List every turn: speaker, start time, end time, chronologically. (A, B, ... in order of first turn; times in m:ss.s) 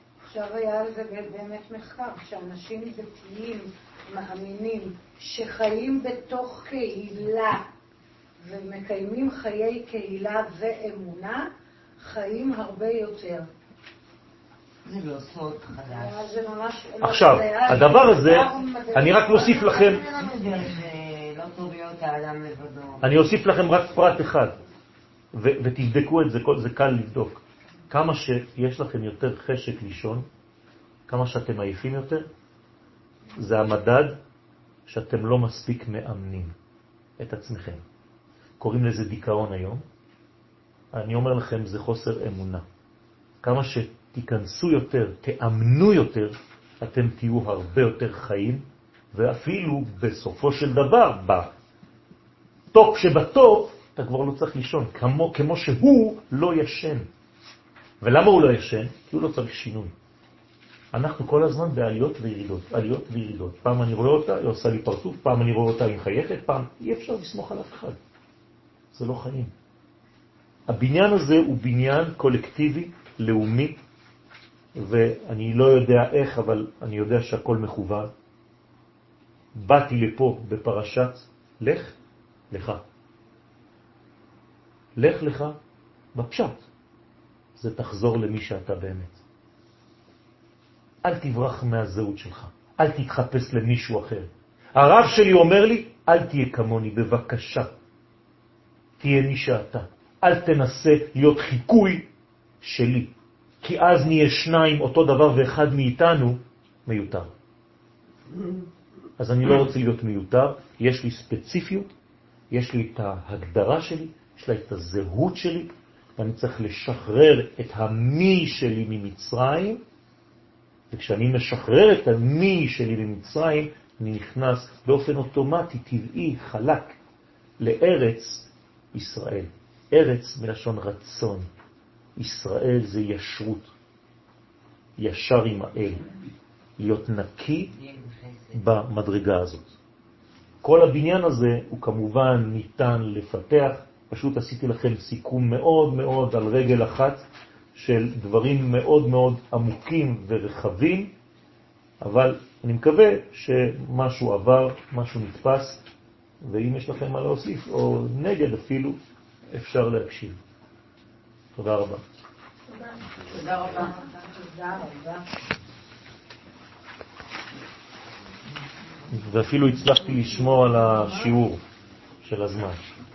0:00.3-0:07.6 A
0:08.4-0:13.5 A
0:14.8-0:16.3 B
0:15.9-0:19.7 A
0:17.0-0:20.0 C
0:19.5-0:23.1 B
0:23.0-0:24.6 C
0:25.3-0:30.3 C
0:31.1-0:32.3 C
0:33.4-0:34.2 C
0:34.9-0:36.5 C
0:37.2-0:37.8 C
0:38.6-0:39.8 C
0:40.9-0:42.6 C
0:43.4-0:51.5 C
0:52.7-0:57.1 C
0:58.0-0:59.9 C
1:00.9-1:08.0 C
1:08.9-1:09.5 C
1:10.7-1:13.8 C
1:14.8-1:18.1 C
1:19.6-1:22.0 C
1:22.5-1:22.8 C
1:25.0-1:25.6 C
1:26.1-1:26.6 C
1:27.6-1:29.2 C
1:31.0-1:37.7 C
1:39.0-1:42.1 C
1:42.6-1:47.3 C
1:49.2-1:51.9 C
1:52.5-1:59.8 C
2:00.9-2:07.0 C
2:07.6-2:11.5 C
2:12.2-2:13.7 C
2:15.0-2:16.1 C
2:16.8-2:17.7 C
2:17.7-2:18.8 B
2:18.5-2:19.7 C
2:20.6-2:27.2 C
2:27.8-2:31.1 C
2:32.0-2:35.8 C
2:36.4-2:39.0 C
2:39.5-2:40.4 C
2:41.6-2:42.0 C
2:43.3-2:45.2 A
2:49.1-2:51.6 C
2:52.2-2:52.8 C